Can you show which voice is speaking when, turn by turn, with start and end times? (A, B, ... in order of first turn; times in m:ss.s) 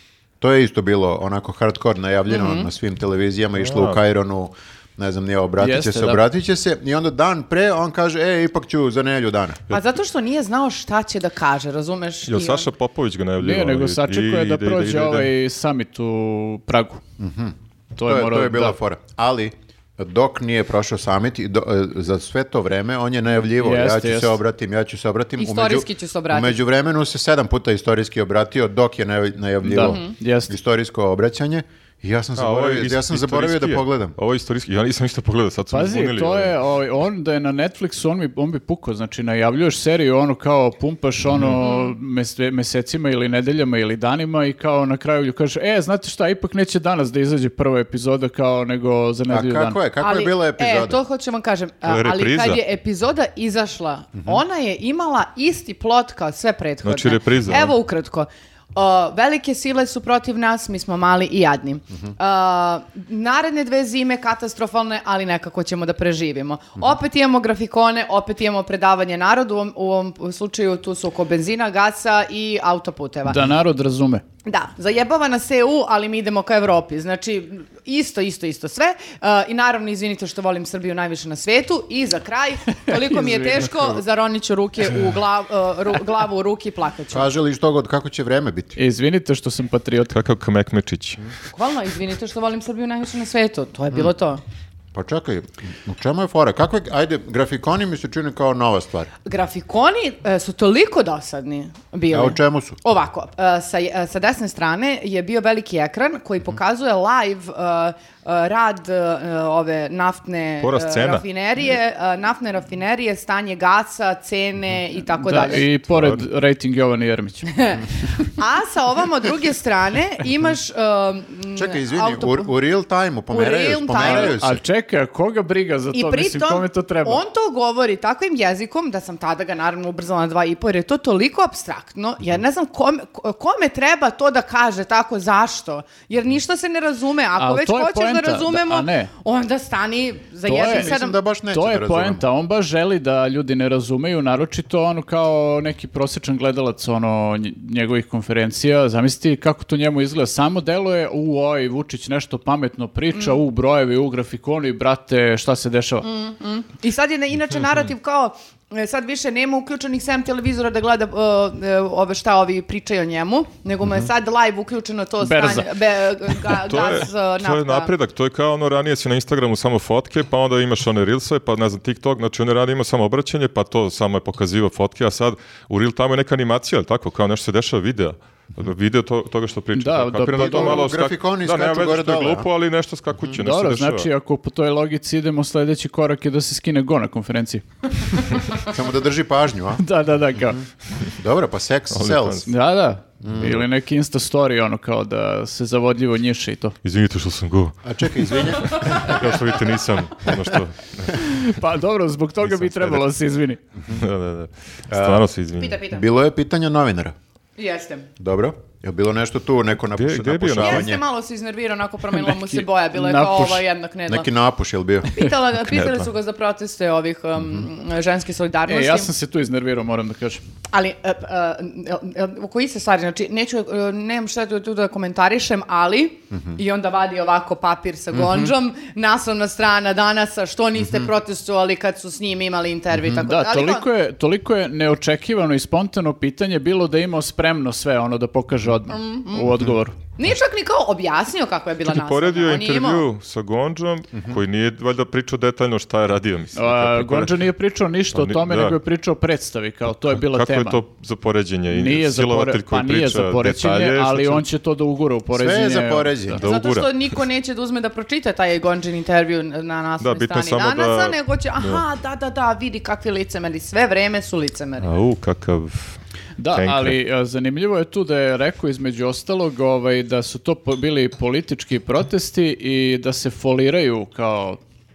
0:00.4-0:09.7 A
0:02.3-0:02.7 B
0:03.6-0:04.0 C
0:05.6-0:06.2 D
0:09.7-0:12.7 B
0:12.3-0:15.3 C
0:13.4-0:17.0 D
0:17.2-0:34.2 A
0:18.0-0:18.8 D
0:23.6-0:24.4 D
0:25.4-0:26.6 B
0:29.6-0:30.6 D
0:29.8-0:30.1 B
0:32.4-0:36.6 C
0:35.7-0:49.8 D
0:41.6-0:41.9 B
0:49.3-0:51.0 A
0:50.0-1:13.4 B
0:51.8-0:52.6 C
0:56.8-0:57.8 C
1:13.2-1:14.2 D
1:14.5-1:27.3 B
1:22.9-1:23.9 D
1:27.1-1:28.8 A
1:28.8-1:30.2 D
1:30.1-1:31.2 C
1:31.5-1:34.4 B
1:34.9-1:39.1 A
1:39.2-1:55.7 B
1:42.1-1:42.8 A
1:50.6-1:51.2 C
1:55.2-1:57.5 D
1:55.9-1:56.2 C
1:57.5-2:02.5 B
2:01.6-2:04.6 A
2:03.3-2:04.4 B
2:04.0-2:07.2 D
2:05.9-2:21.2 B
2:17.4-2:19.1 D
2:20.4-2:21.0 D
2:20.5-2:22.2 A
2:21.5-2:36.1 D
2:33.2-2:33.4 B
2:36.0-2:47.9 B
2:45.2-2:45.8 D
2:46.5-3:04.1 C
2:59.8-3:00.9 D
3:00.3-3:02.5 A
3:03.4-3:07.6 D
3:08.6-3:09.8 A
3:09.8-3:10.6 D
3:10.4-3:12.5 A
3:11.9-3:12.5 C
3:12.5-3:16.8 D
3:13.2-3:13.6 A
3:16.8-3:21.3 C
3:17.8-3:19.4 A
3:21.1-3:23.6 D
3:22.4-3:23.0 C
3:23.9-3:25.8 C
3:24.9-3:25.3 A
3:25.6-3:26.0 B
3:25.9-3:27.1 A
3:27.6-3:28.1 B
3:28.2-3:31.0 A
3:29.9-3:30.9 C
3:30.6-3:34.3 B
3:32.1-3:33.6 D
3:34.1-3:35.1 A
3:35.1-3:39.1 B
3:35.6-3:36.1 C
3:37.4-3:37.7 A
3:38.7-3:40.4 D
3:40.7-3:53.9 B
3:48.2-3:48.5 A
3:52.9-3:53.2 A
3:53.2-4:00.0 D
3:58.9-4:03.0 B
4:01.8-4:07.4 C
4:04.1-4:04.4 A
4:06.6-4:10.8 D
4:08.1-4:08.8 C
4:10.1-4:14.4 C
4:11.7-4:16.4 D
4:15.3-4:16.4 A
4:16.4-4:17.1 C
4:16.4-4:24.9 B
4:20.0-4:21.8 C
4:24.8-4:26.0 C
4:26.4-4:34.6 D
4:26.5-4:27.0 C